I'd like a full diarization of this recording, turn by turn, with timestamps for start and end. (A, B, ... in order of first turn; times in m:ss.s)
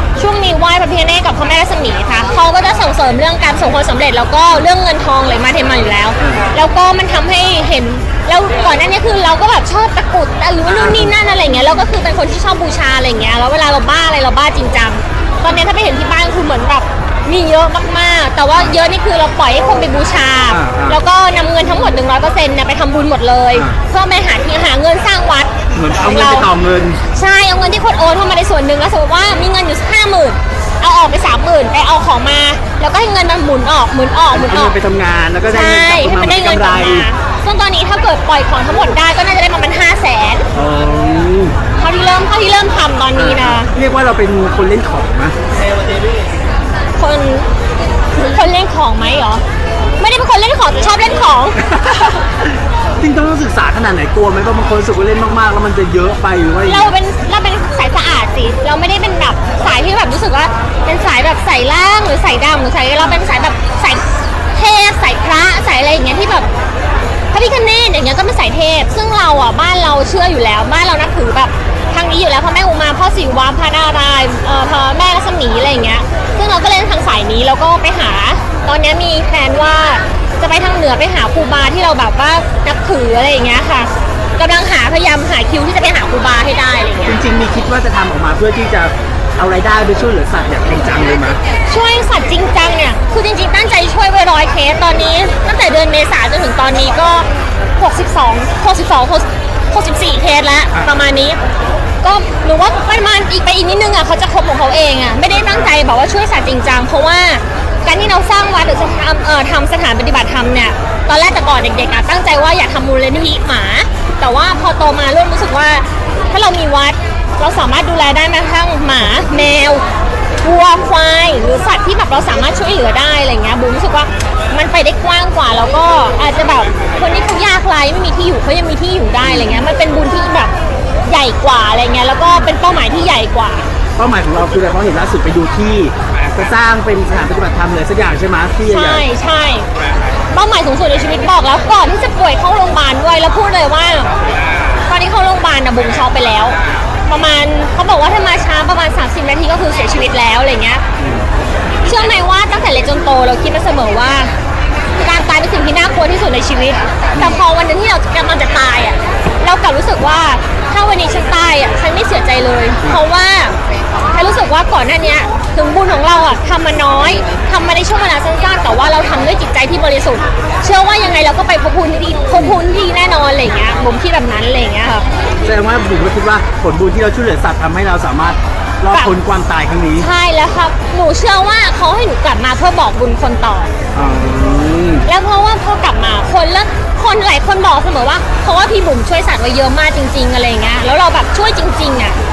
0:00.2-0:25.5 A
0:06.2-0:06.5 B
0:10.6-0:11.2 B
0:20.5-0:21.0 B
0:23.5-0:23.8 B
0:25.7-0:27.0 B
0:26.0-0:26.5 A
0:27.1-0:34.8 A
0:34.3-0:37.1 B
0:35.5-0:40.5 A
0:40.5-0:41.6 B
0:41.8-0:43.7 A
0:43.1-0:45.4 B
0:47.0-0:47.5 A
0:48.1-0:49.4 A
0:50.0-0:51.6 A
0:51.6-0:56.9 B
0:56.6-1:06.5 A
1:07.3-1:27.2 A
1:27.0-1:31.4 B
1:31.7-1:37.3 A
1:37.8-1:41.4 A
1:42.0-1:59.8 A
1:45.3-1:45.7 B
2:00.4-2:10.5 A
2:09.2-2:09.7 B
2:11.0-2:13.7 A
2:14.0-2:19.0 B
2:18.6-2:19.7 A
2:20.3-2:24.2 A
2:24.8-2:30.8 A
2:31.0-2:31.2 B
2:31.8-2:34.3 A
2:35.0-2:43.6 A
2:44.1-2:55.1 A
2:52.3-2:52.6 B
2:55.4-3:00.1 B
3:00.0-3:03.7 A
3:03.9-3:05.0 B
3:05.0-3:12.2 A